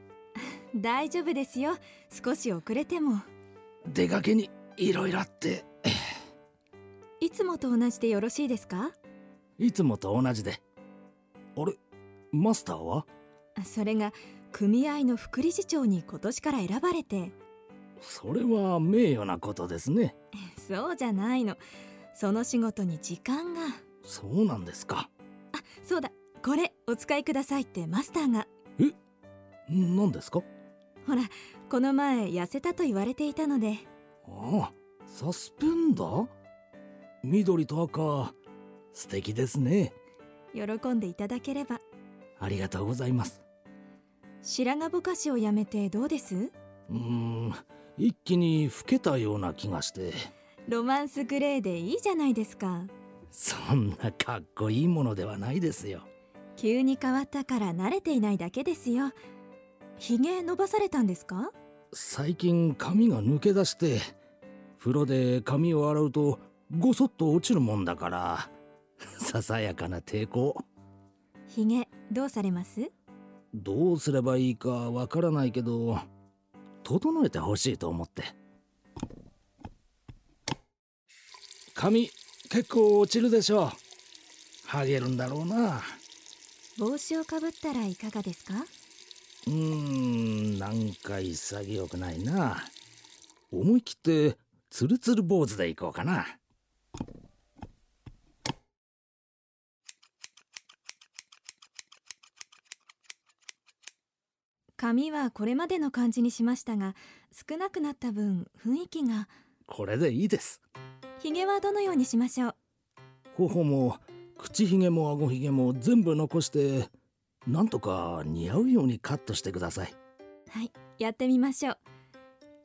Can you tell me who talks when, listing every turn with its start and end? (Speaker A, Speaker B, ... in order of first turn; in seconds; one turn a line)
Speaker A: 0.5-3.2
Speaker B: 3.9-5.9
Speaker A: 7.2-8.9
Speaker B: 9.6-10.6
Speaker B: 12.3-13.1
Speaker A: 13.6-17.3
Speaker B: 18.0-20.1
Speaker A: 20.4-21.6
Speaker A: 22.1-23.8
Speaker B: 24.0-25.1
Speaker A: 25.5-28.5
Speaker B: 29.7-30.4
Speaker A: 31.0-33.9
Speaker B: 34.2-36.3
Speaker B: 37.2-38.4
Speaker B: 38.9-40.0
Speaker A: 40.5-41.8
Speaker B: 42.4-43.4
Speaker A: 44.4-46.5
Speaker B: 46.9-50.2
Speaker A: 50.7-52.9
Speaker B: 53.3-56.1
Speaker A: 56.6-59.1
Speaker A: 60.0-61.5
Speaker B: 61.9-64.0
Speaker B: 64.8-68.5
Speaker B: 69.0-70.6
Speaker A: 71.5-72.9
Speaker B: 73.5-76.0
Speaker B: 76.8-78.3
Speaker B: 81.7-83.8
Speaker B: 84.6-86.0
Speaker A: 86.8-88.7
Speaker B: 89.5-92.7
Speaker B: 93.5-96.4
Speaker A: 104.8-109.3
Speaker B: 109.7-110.6
Speaker A: 111.2-112.5
Speaker B: 113.3-116.9
Speaker B: 117.5-119.9
Speaker A: 120.5-121.8